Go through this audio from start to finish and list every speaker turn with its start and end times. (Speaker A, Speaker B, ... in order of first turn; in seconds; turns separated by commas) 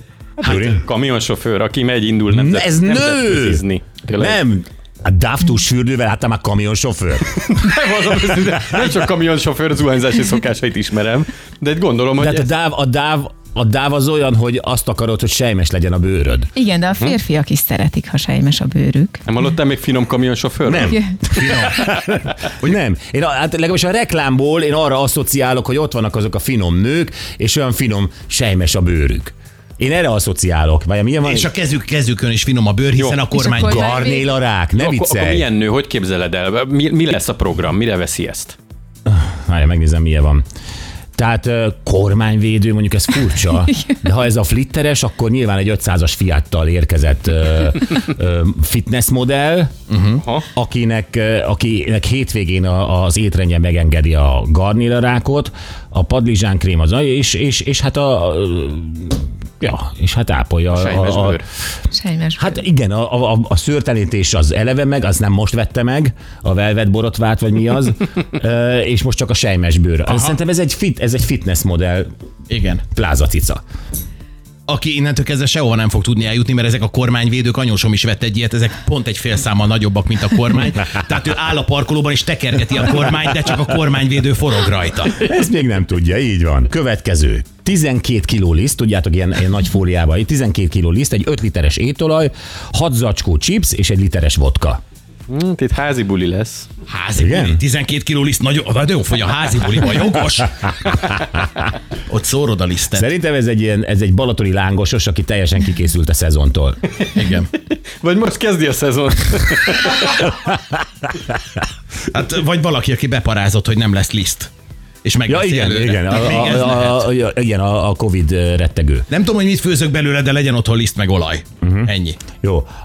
Speaker A: 0.4-4.4, Speaker B: 0.4-0.8, Speaker B: 2.3-3.6, Speaker B: 4.2-7.3, Speaker A: 7.4-12.5, Speaker B: 12.2-16.5, Speaker C: 16.5-19.2, Speaker A: 19.3-21.0, Speaker B: 20.7-31.5, Speaker C: 20.8-21.1, Speaker D: 21.3-21.9, Speaker D: 31.2-33.9, Speaker A: 32.9-33.2, Speaker C: 33.3-34.3, Speaker B: 33.6-35.5, Speaker A: 34.8-38.5, Speaker B: 39.1-40.4, Speaker B: 41.2-49.7, Speaker D: 49.9-50.2, Speaker B: 50.5-61.4, Speaker A: 60.7-61.4, Speaker C: 61.9-62.6, Speaker B: 62.4-72.1, Speaker D: 70.1-70.4, Speaker D: 72.5-72.8, Speaker B: 72.9-73.6, Speaker D: 74.7-85.3, Speaker B: 85.2-94.8, Speaker A: 95.3-96.7, Speaker D: 96.9-101.3, Speaker B: 97.2-97.6, Speaker D: 102.1-103.1, Speaker B: 102.9-106.8, Speaker D: 107.2-107.5, Speaker A: 108.0-110.3, Speaker D: 112.1-114.5, Speaker D: 115.0-117.1, Speaker B: 115.3-119.1, Speaker D: 119.1-122.2, Speaker B: 121.6-122.7